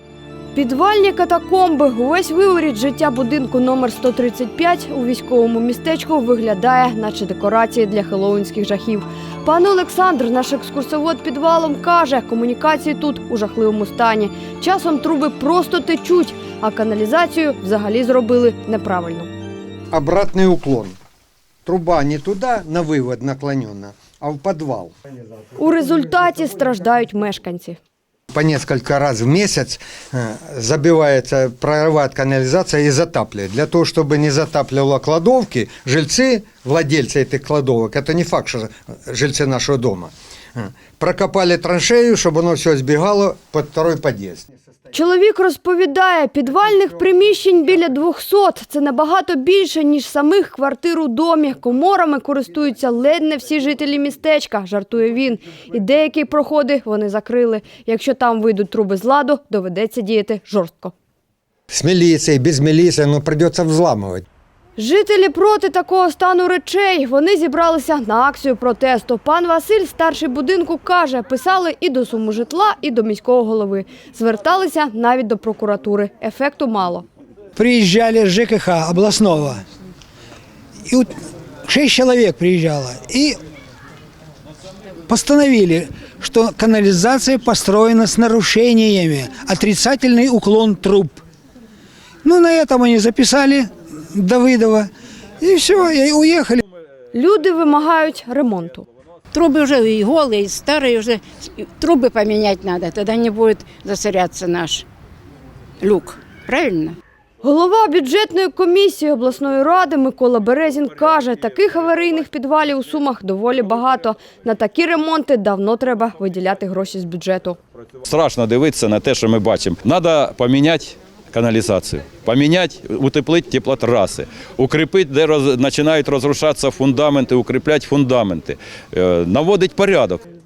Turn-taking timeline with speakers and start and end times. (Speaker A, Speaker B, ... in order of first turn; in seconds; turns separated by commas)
Speaker A: 0.5-19.3, Speaker B: 19.9-20.9, Speaker B: 21.6-24.9, Speaker A: 25.6-27.8, Speaker B: 28.3-44.4, Speaker A: 44.9-60.9, Speaker B: 61.7-64.2, Speaker A: 64.8-77.1, Speaker C: 77.5-79.6, Speaker C: 80.9-81.1, Speaker C: 81.6-83.4, Speaker C: 85.1-91.2, Speaker C: 92.2-96.6, Speaker A: 97.1-98.8, Speaker D: 99.3-104.8, Speaker D: 105.8-107.0, Speaker A: 107.4-117.6, Speaker E: 118.0-130.2